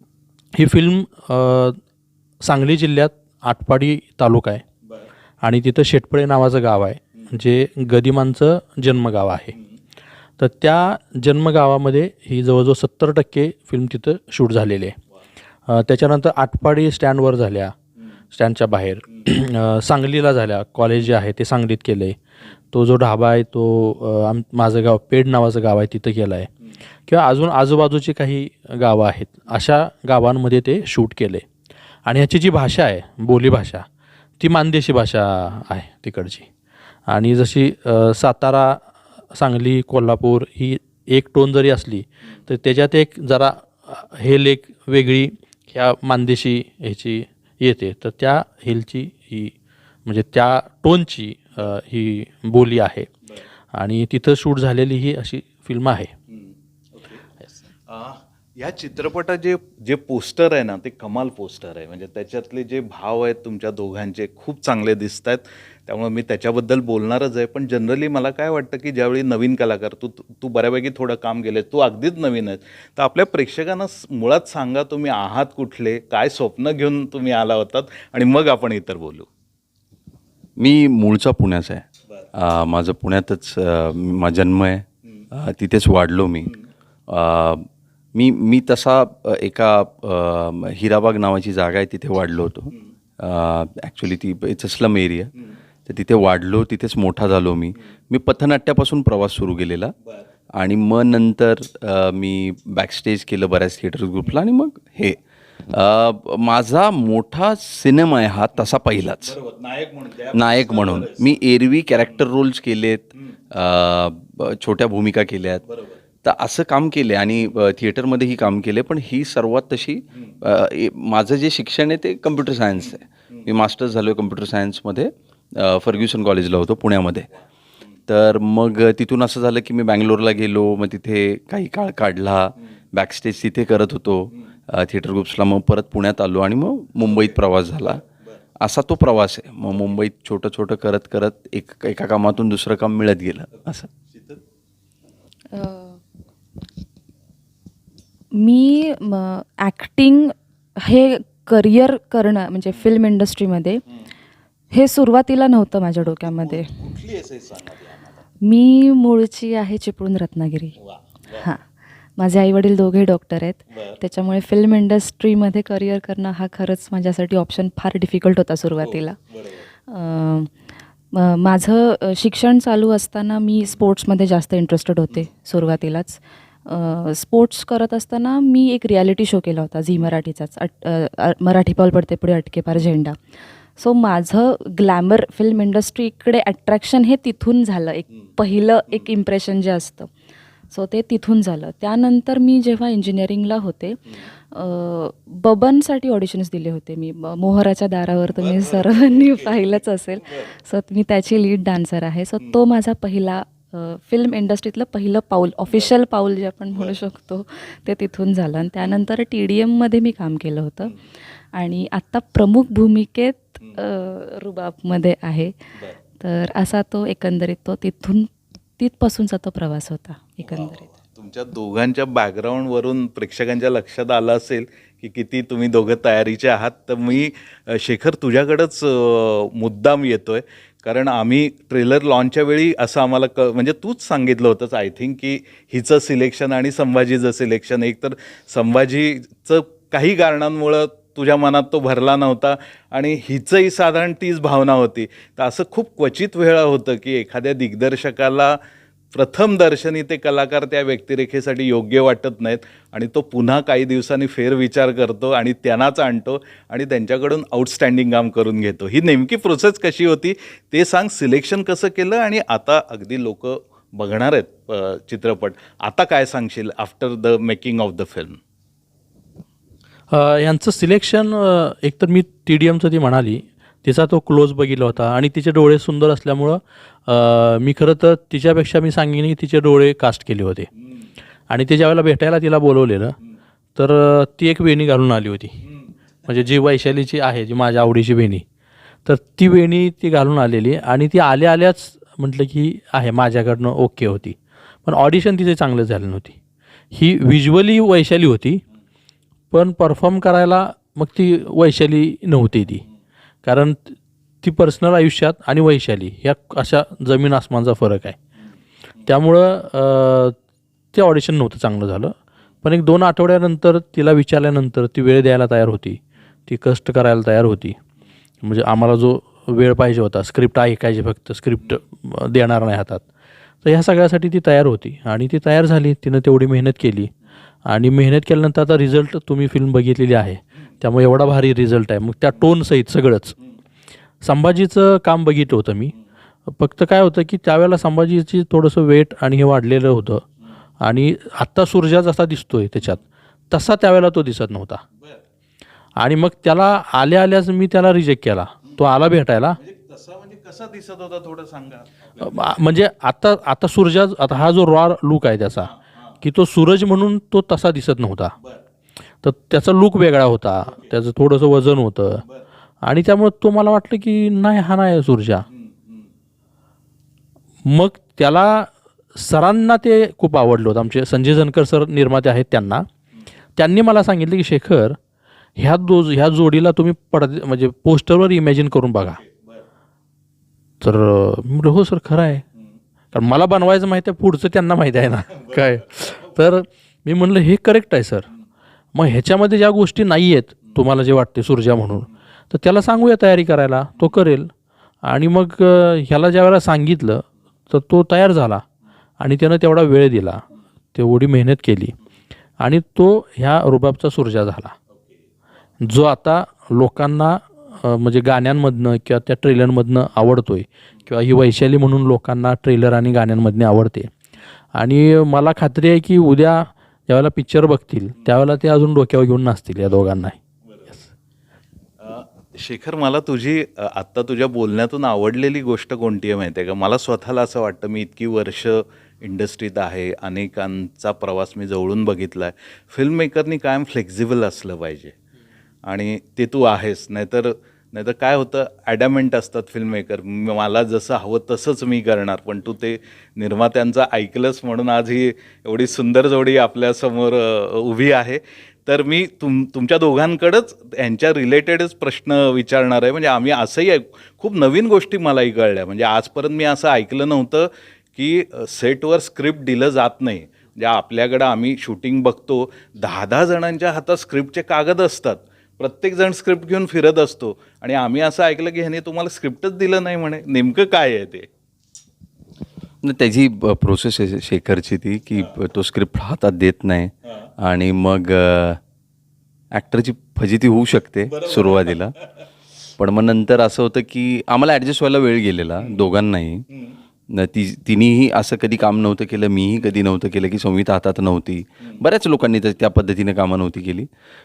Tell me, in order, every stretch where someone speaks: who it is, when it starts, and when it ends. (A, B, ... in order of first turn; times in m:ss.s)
0:00.6-0:01.8 A
0:02.4-0:04.6 A
0:05.4-0:09.5 A
0:10.4-0:15.0 A
0:15.7-0:17.7 A
0:18.3-0:22.2 A
0:22.7-0:26.5 A
0:27.1-0:31.4 A
0:32.1-0:33.8 A
0:34.4-0:36.5 A
0:37.1-0:38.8 A
0:39.3-0:49.5 A
0:50.1-0:53.1 A
0:53.7-0:56.1 A
0:56.3-0:57.2 B
0:57.9-1:19.3 B
1:20.6-1:26.5 C
1:27.1-1:35.3 C
1:35.9-1:39.9 C
1:40.5-1:49.3 C
1:49.2-1:51.4 B
1:50.3-1:55.6 C
1:55.7-1:56.0 B
1:56.2-2:07.3 C
2:00.1-2:00.4 B
2:08.1-2:18.0 C
2:17.0-2:18.4 B
2:18.6-2:23.9 C
2:23.5-2:24.4 B
2:25.5-2:26.0 D
2:28.3-2:33.8 D
2:34.7-2:36.8 D
2:36.0-2:38.2 B
2:38.4-2:40.8 D
2:40.8-2:41.5 B
2:42.2-2:49.2 D
2:43.7-2:44.0 B
2:48.8-2:49.7 B
2:49.9-2:50.5 D
2:51.1-3:03.2 D
3:03.8-3:10.1 D
3:10.7-3:14.0 D
3:14.5-3:31.0 D
3:18.4-3:20.5 B
3:31.5-3:35.5 D
3:36.2-3:40.8 D
3:40.4-4:08.6 B
4:09.1-4:28.4 B
4:30.1-4:40.7 A
4:40.8-4:41.1 B
4:41.5-4:43.2 A
4:43.8-4:45.6 A
4:45.6-4:45.9 B
4:46.3-4:48.4 A
4:49.0-4:56.4 A
4:56.9-4:58.6 A
4:59.5-5:02.8 A
5:03.4-5:08.2 A
5:09.0-5:10.4 A
5:10.9-5:17.8 A
5:18.4-5:23.0 A
5:23.6-5:27.1 A
5:27.7-5:33.4 A
5:34.2-5:35.9 A
5:36.5-5:40.2 A
5:40.8-5:44.8 A
5:45.0-5:45.2 B
5:46.0-5:49.6 A
5:49.6-5:52.6 B
5:52.2-5:58.4 A
5:55.5-5:56.2 B
5:58.4-5:58.6 B
5:59.2-6:02.2 A
6:00.6-6:00.9 B
6:02.8-6:05.5 A
6:05.5-6:06.1 B
6:07.7-6:12.9 A
6:13.6-6:15.0 A
6:15.6-6:19.2 A
6:19.1-6:19.6 B
6:20.8-6:22.4 A
6:23.1-6:28.3 A
6:25.3-6:26.3 B
6:28.9-6:34.5 A
6:35.0-6:38.6 A
6:39.2-6:42.0 A
6:42.6-6:44.7 A
6:45.8-6:54.1 A
6:54.8-7:00.4 A
7:00.7-7:01.0 B
7:02.0-7:15.2 B
7:15.9-7:51.5 B
7:53.0-7:58.8 C
7:59.7-8:02.2 C
8:01.3-8:02.3 B
8:03.0-8:06.7 C
8:06.7-8:07.0 B
8:07.3-8:14.1 C